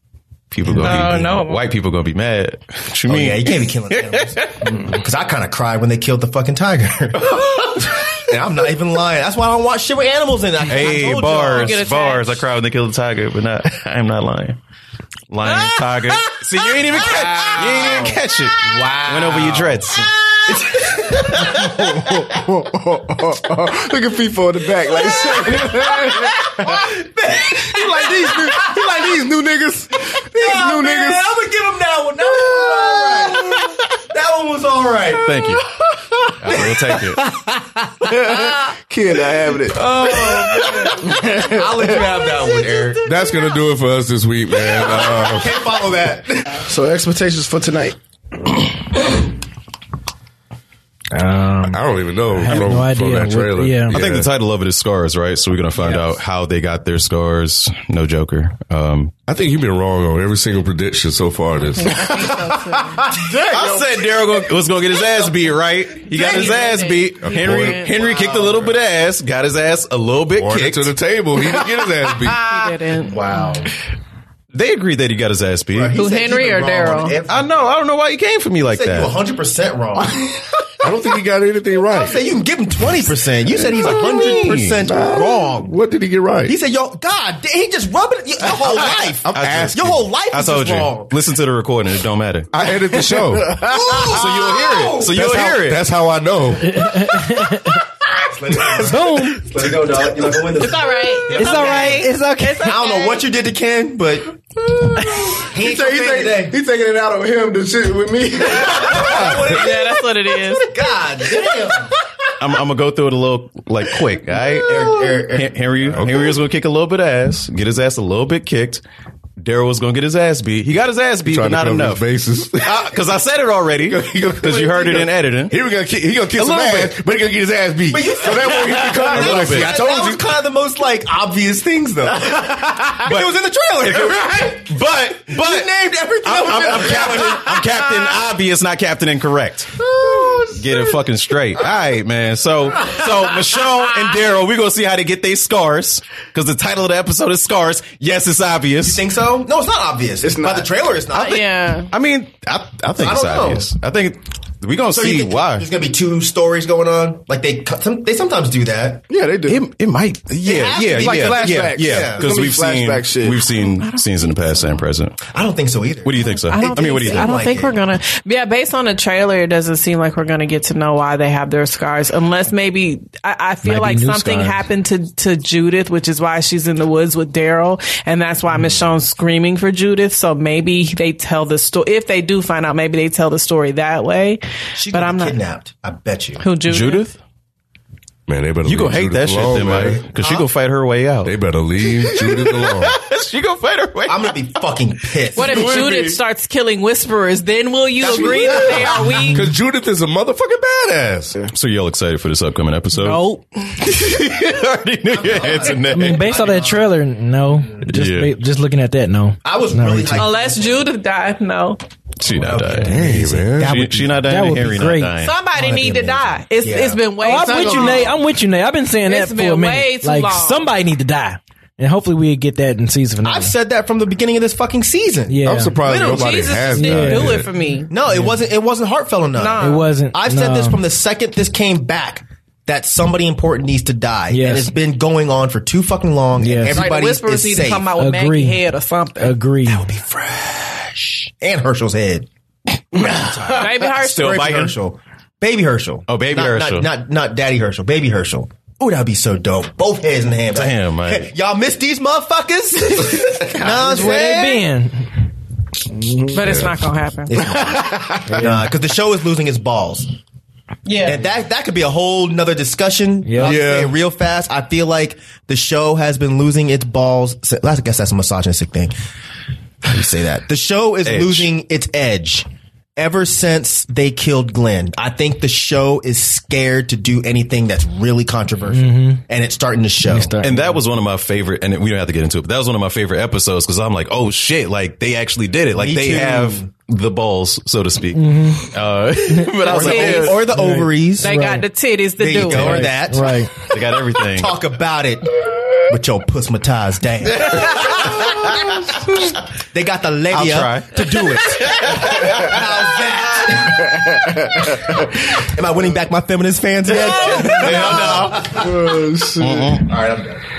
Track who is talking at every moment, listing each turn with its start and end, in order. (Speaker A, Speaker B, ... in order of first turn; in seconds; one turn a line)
Speaker A: 0.5-4.8
Speaker B: 0.7-1.7
Speaker C: 3.1-11.8
Speaker A: 7.2-8.0
Speaker A: 10.7-14.6
Speaker B: 11.4-12.4
Speaker A: 15.3-20.2
Speaker C: 16.6-22.6
Speaker D: 19.1-19.6
Speaker D: 20.9-26.9
Speaker C: 24.8-29.1
Speaker D: 27.6-31.2
Speaker C: 30.1-35.6
Speaker D: 32.3-33.8
Speaker A: 35.2-35.7
Speaker D: 36.0-36.8
Speaker A: 36.4-37.3
Speaker C: 36.5-38.5
Speaker D: 38.0-42.9
Speaker C: 39.8-43.5
Speaker E: 43.0-45.6
Speaker D: 44.7-49.3
Speaker C: 44.8-46.6
Speaker F: 51.1-54.0
Speaker E: 51.7-54.3
Speaker A: 53.9-59.1
Speaker E: 59.3-62.2
Speaker B: 61.8-63.0
Speaker D: 63.1-64.2
Speaker A: 63.5-70.9
Speaker B: 66.1-68.4
Speaker E: 67.2-67.9
Speaker D: 68.3-68.6
Speaker E: 70.4-72.7
Speaker D: 72.1-72.4
Speaker B: 72.4-73.2
Speaker C: 73.0-73.7
Speaker A: 74.5-76.0
Speaker C: 75.7-77.7
Speaker B: 75.9-77.2
Speaker A: 77.3-79.2
Speaker C: 78.7-80.2
Speaker D: 80.0-80.7
Speaker E: 80.8-82.2
Speaker C: 81.9-85.7
Speaker E: 83.6-86.5
Speaker A: 83.7-84.8
Speaker C: 86.5-91.2
Speaker A: 88.5-92.5
Speaker E: 89.2-89.9
Speaker E: 92.5-93.6
Speaker D: 92.6-94.3
Speaker C: 93.7-95.4
Speaker A: 94.1-95.9
Speaker E: 95.1-97.1
Speaker F: 96.6-97.8
Speaker C: 98.2-102.1
Speaker F: 98.8-99.5
Speaker B: 100.6-103.2
Speaker F: 101.3-102.8
Speaker C: 102.6-106.6
Speaker D: 104.9-109.3
Speaker C: 108.5-111.9
Speaker E: 109.0-109.6
Speaker B: 109.5-110.7
Speaker D: 111.4-111.8
Speaker A: 112.4-118.8
Speaker D: 114.3-115.0
Speaker C: 114.6-116.1
Speaker E: 116.0-116.4
Speaker A: 119.4-122.0
Speaker E: 121.2-123.0
Speaker A: 122.6-125.6
Speaker E: 123.9-130.2
Speaker A: 126.4-127.0
Speaker C: 127.9-134.8
Speaker A: 128.2-130.2
Speaker A: 132.3-133.3
Speaker A: 133.8-135.7
Speaker C: 135.3-137.7
Speaker A: 136.2-139.9
Speaker C: 139.8-140.9
Speaker A: 140.5-149.0
Speaker C: 148.8-151.5
Speaker D: 150.2-150.7
Speaker B: 151.1-151.9
Speaker A: 151.9-155.7
Speaker C: 153.0-153.7
Speaker C: 154.9-159.0
Speaker D: 159.1-159.7
Speaker A: 159.4-165.2
Speaker C: 160.4-162.3
Speaker D: 160.5-163.4
Speaker B: 163.5-164.8
Speaker C: 165.3-167.8
Speaker A: 166.0-167.5
Speaker B: 166.2-185.3
Speaker F: 173.6-174.6
Speaker C: 178.5-178.8
Speaker C: 184.8-186.4
Speaker B: 186.4-187.1
Speaker A: 186.7-187.2
Speaker E: 188.3-190.0
Speaker A: 188.6-194.4
Speaker C: 189.6-190.5
Speaker E: 191.2-193.0
Speaker C: 194.1-195.8
Speaker A: 195.3-196.2
Speaker B: 195.4-199.5
Speaker D: 195.7-196.0
Speaker C: 198.0-199.2
Speaker E: 199.2-201.4
Speaker A: 201.5-203.2
Speaker F: 203.0-203.4
Speaker A: 203.8-206.4
Speaker C: 205.1-206.9
Speaker F: 205.9-210.3
Speaker A: 207.9-208.3
Speaker C: 209.4-210.8
Speaker B: 210.1-211.8
Speaker A: 212.2-215.3
Speaker C: 212.3-214.3
Speaker E: 212.8-213.8
Speaker F: 214.2-215.2
Speaker B: 215.2-218.2
Speaker C: 215.6-218.0
Speaker F: 217.2-223.5
Speaker B: 219.0-220.7
Speaker C: 223.2-225.5
Speaker F: 225.3-225.9
Speaker E: 225.4-227.5
Speaker B: 225.8-228.0
Speaker F: 226.7-227.4
Speaker C: 227.9-237.9
Speaker F: 228.1-228.4
Speaker B: 229.3-229.9
Speaker F: 229.6-230.8
Speaker F: 234.3-234.7
Speaker F: 236.4-236.8
Speaker B: 236.7-239.4
Speaker F: 238.0-238.6
Speaker F: 239.2-239.9
Speaker C: 239.7-242.3
Speaker C: 242.9-254.7
Speaker D: 242.9-243.5
Speaker B: 243.6-244.4
Speaker A: 243.9-244.8
Speaker A: 246.1-246.9
Speaker A: 250.5-251.3
Speaker F: 253.6-255.1
Speaker D: 255.8-256.6
Speaker B: 256.3-257.5
Speaker E: 256.4-256.8
Speaker C: 257.3-260.1
Speaker D: 257.4-258.4
Speaker F: 258.3-258.7
Speaker B: 260.9-261.2
Speaker C: 261.0-268.9
Speaker F: 263.2-263.6
Speaker E: 263.4-263.9
Speaker C: 269.8-280.3
Speaker A: 271.1-271.5
Speaker F: 278.7-279.2
Speaker F: 280.1-280.8
Speaker A: 280.4-290.4
Speaker C: 285.7-286.7
Speaker F: 288.1-288.7
Speaker F: 289.3-289.6
Speaker C: 289.6-291.4
Speaker B: 289.7-290.5
Speaker F: 290.5-291.6
Speaker B: 291.2-292.8
Speaker C: 292.2-295.3
Speaker A: 292.5-293.0
Speaker F: 292.5-293.5
Speaker A: 293.6-294.6
Speaker C: 295.9-298.5
Speaker A: 297.3-298.7
Speaker C: 299.6-304.3
Speaker A: 300.3-302.6
Speaker D: 304.3-304.6
Speaker C: 305.3-309.0
Speaker A: 307.0-308.7
Speaker D: 307.2-309.9
Speaker A: 309.4-309.9
Speaker C: 309.8-310.4